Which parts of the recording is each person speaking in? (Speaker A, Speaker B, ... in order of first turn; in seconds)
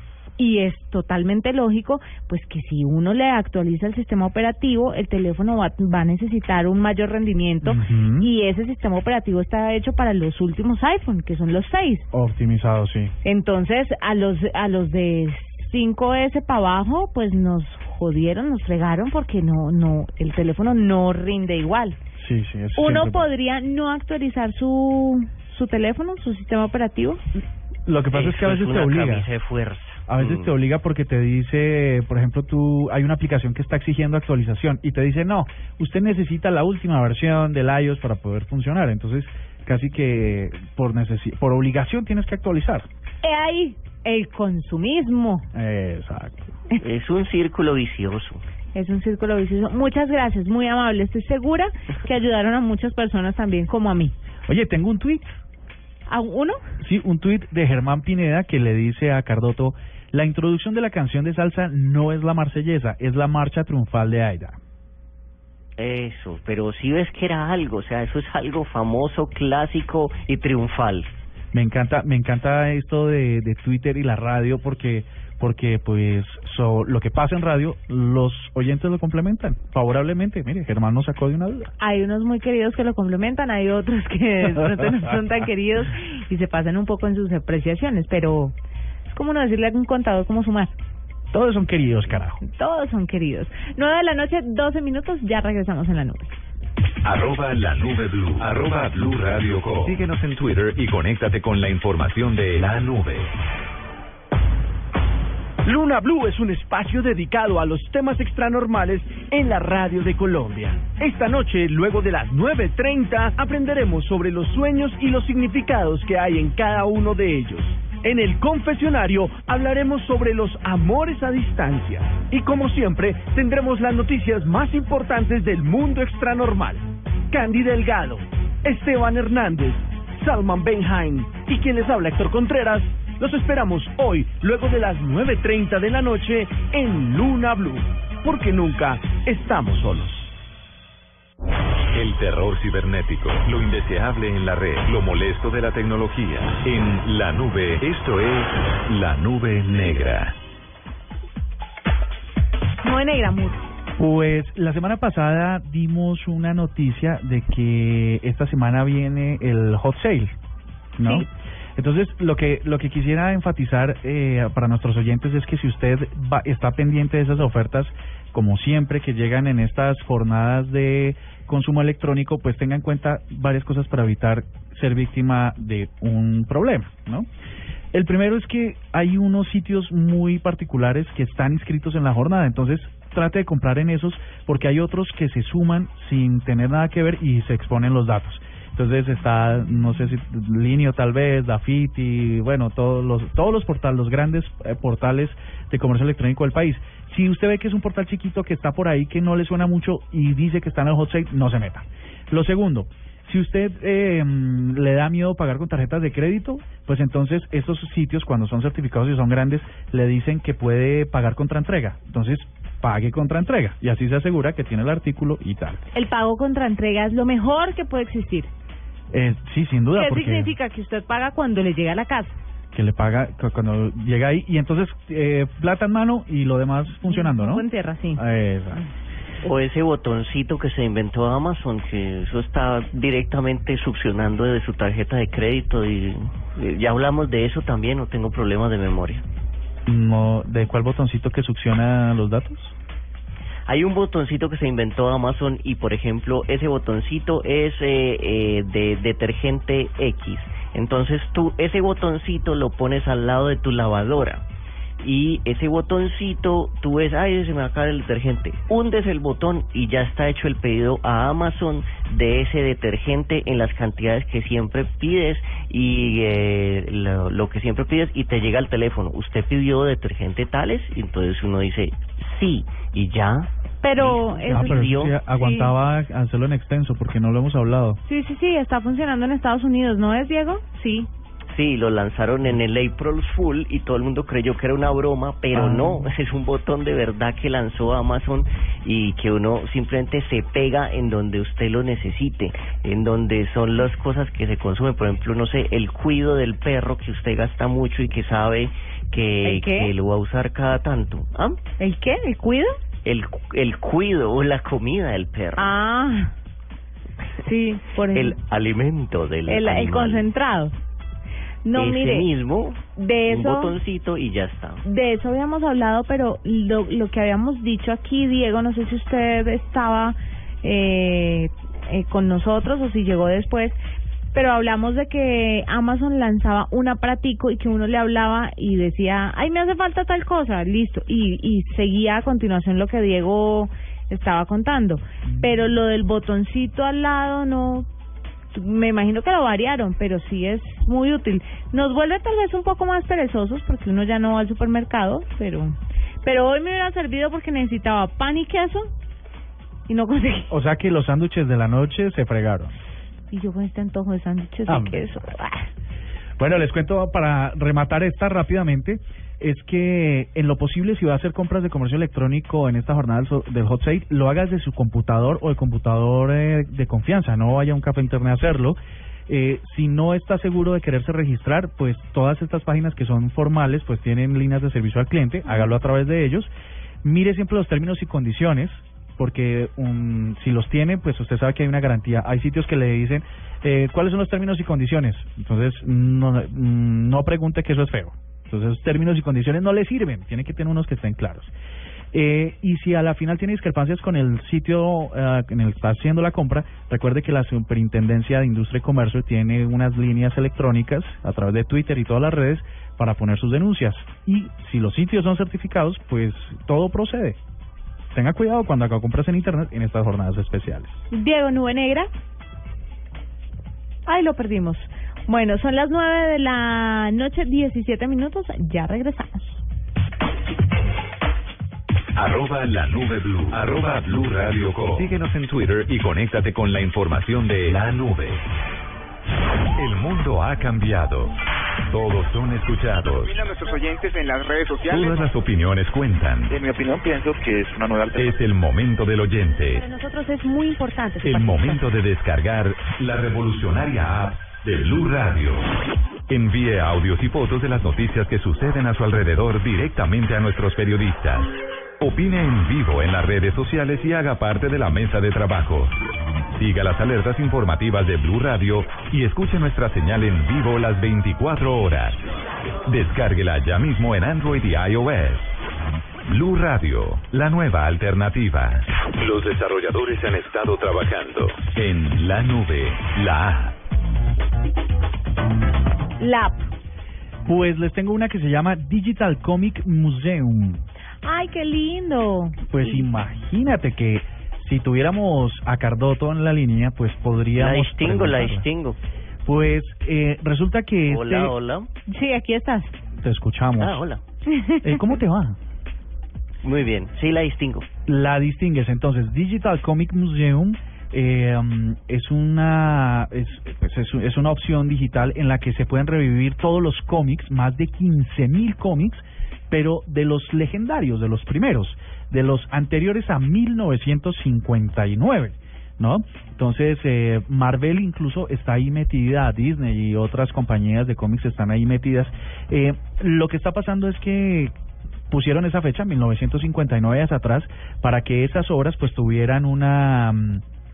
Speaker A: 0.4-12.1, 13.2-22.0, 22.8-27.2, 43.2-45.5, 48.7-54.1, 56.1-56.6, 81.8-88.5, 89.1-90.7, 92.4-96.3, 152.8-153.6, 215.9-218.5, 219.9-222.4, 227.1-228.2, 273.8-275.7, 278.0-281.1, 299.4-299.9, 301.8-302.8, 305.6-306.3, 307.4-308.4, 309.5-310.7, 311.6-312.3, 312.9-313.7, 314.8-323.8, 324.3-337.9, 338.5-348.9, 349.9-350.5, 353.3-355.7, 411.1-412.1, 414.1-419.6, 439.8-441.7, 476.2-476.7, 481.2-483.0, 492.1-492.9, 494.5-495.1
Speaker B: 7.6-8.3, 12.1-13.1, 22.2-23.3, 27.9-29.3, 30.1-42.9, 45.5-46.5, 54.5-55.4, 56.8-64.6, 71.5-81.7, 91.3-92.4, 154.0-160.3, 161.0-177.3, 177.9-215.8, 219.1-220.5, 222.7-228.8, 239.8-242.8, 274.0-278.0, 285.5-286.1, 350.5-352.8, 354.7-355.1, 356.4-376.5, 377.0-391.5, 392.1-407.4, 408.1-411.1, 477.4-480.8, 482.7-488.7, 489.4-491.5, 493.2-494.0, 494.8-495.6, 498.1-524.7, 525.3-530.6
Speaker C: 28.1-30.5, 46.8-48.4, 65.8-71.1, 229.4-239.2, 243.7-254.4, 255.0-273.5, 274.0-275.1, 281.5-301.6, 303.0-305.8, 308.1-310.3, 311.7-314.8, 487.6-489.0, 491.1-491.9, 493.8-494.2, 496.6-497.9
Speaker D: 97.0-103.3, 141.9-150.3, 422.1-428.4, 429.8-431.3, 431.9-433.5, 434.9-436.5, 438.1-439.8, 441.2-445.7, 446.3-455.9, 456.5-462.2, 462.9-465.5, 466.3-473.7
Speaker E: 105.6-140.3
Speaker F: 433.2-435.2, 436.5-438.4